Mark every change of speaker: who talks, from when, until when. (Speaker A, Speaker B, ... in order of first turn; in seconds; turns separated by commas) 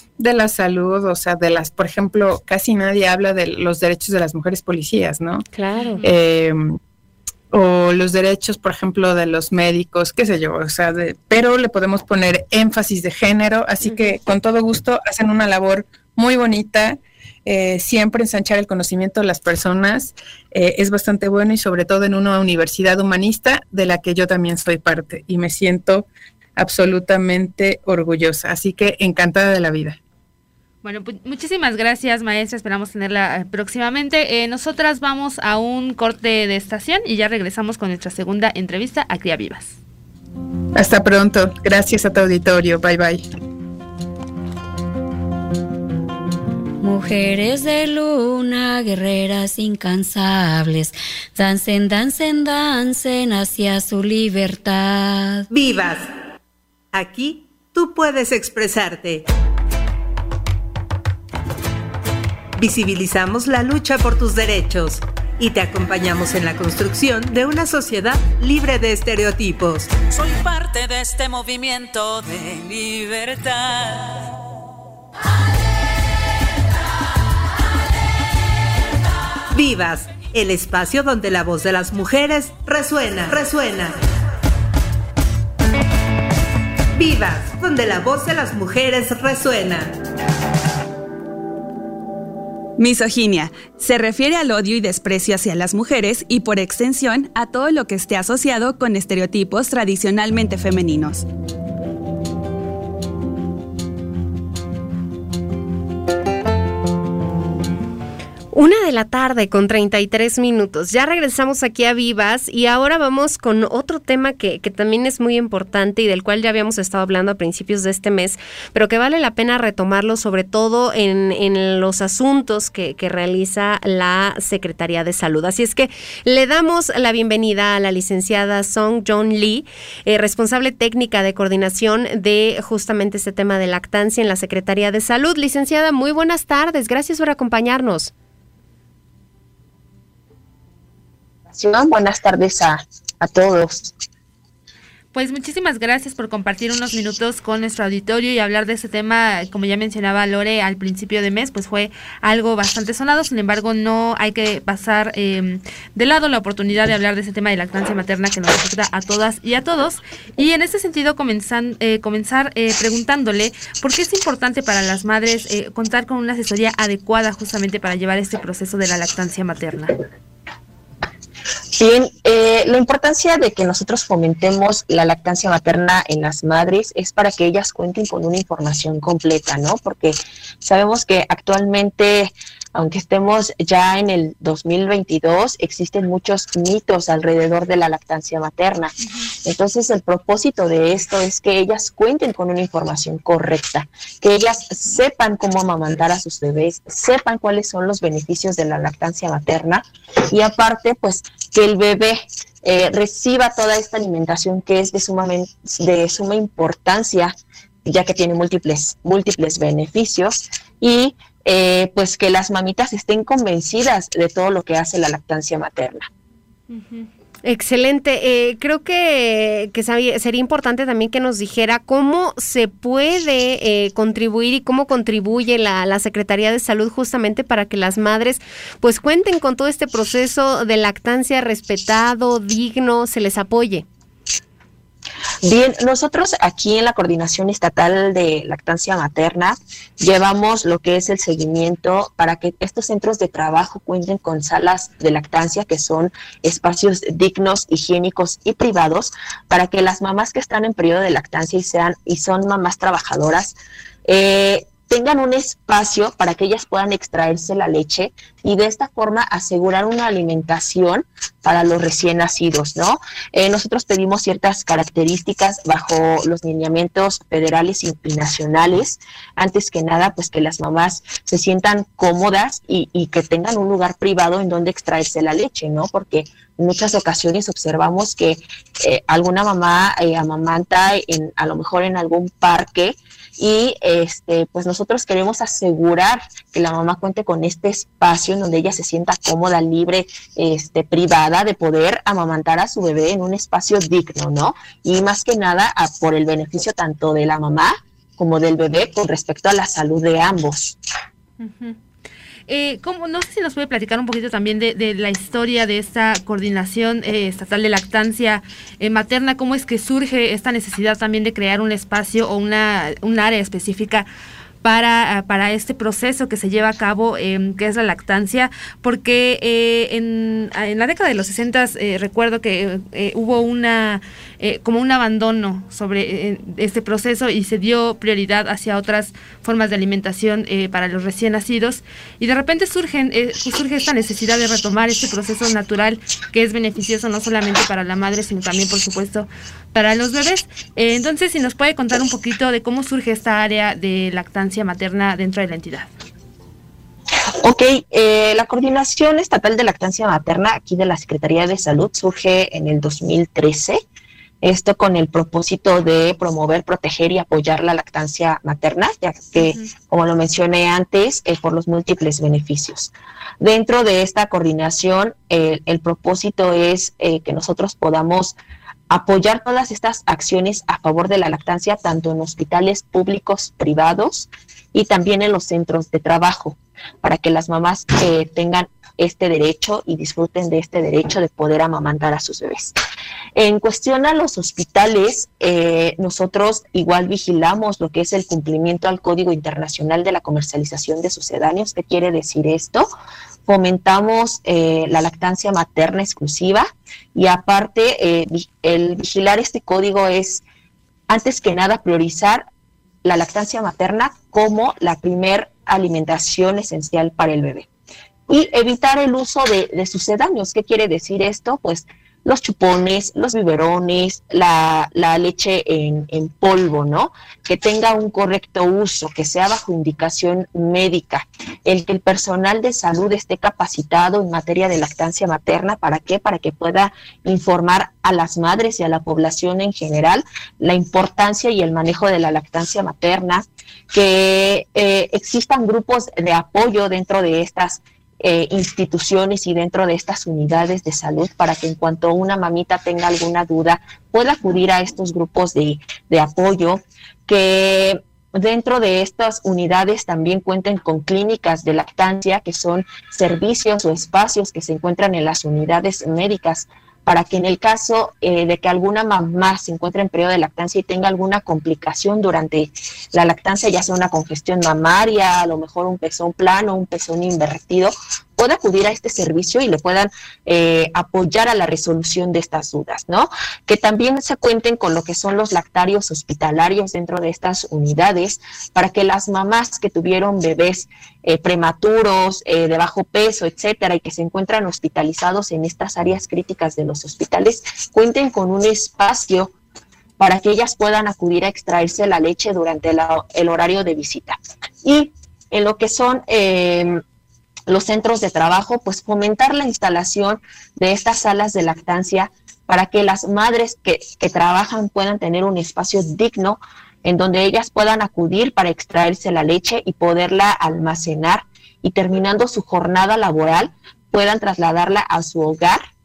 Speaker A: 0.2-5.5, Speaker B: 5.5-6.0, Speaker A: 6.0-6.8, Speaker A: 7.5-30.0, Speaker B: 13.8-14.1, Speaker C: 30.8-39.8, Speaker A: 40.7-43.2, Speaker D: 46.8-55.4, Speaker E: 55.5-56.1, Speaker E: 56.9-59.2, Speaker E: 62.6-69.9, Speaker F: 70.1-74.2, Speaker E: 79.5-84.0, Speaker E: 86.9-89.9, Speaker G: 92.8-101.2, Speaker B: 108.5-138.1, Speaker H: 141.5-143.9, Speaker C: 145.1-169.9, Speaker H: 171.7-188.9, Speaker H: 189.4-216.1, Speaker B: 217.4-233.9, Speaker H: 235.4-300.8, Speaker C: 301.4-301.8, Speaker C: 302.5-314.1, Speaker C: 314.6-345.9, Speaker H: 347.4-353.8, Speaker H: 354.4-368.4, Speaker H: 368.9-382.7, Speaker H: 383.3-392.9, Speaker H: 393.4-400.4, Speaker H: 401.1-402.4, Speaker H: 403.0-407.7, Speaker H: 408.3-489.5, Speaker H: 490.2-497.0, Speaker H: 497.7-515.8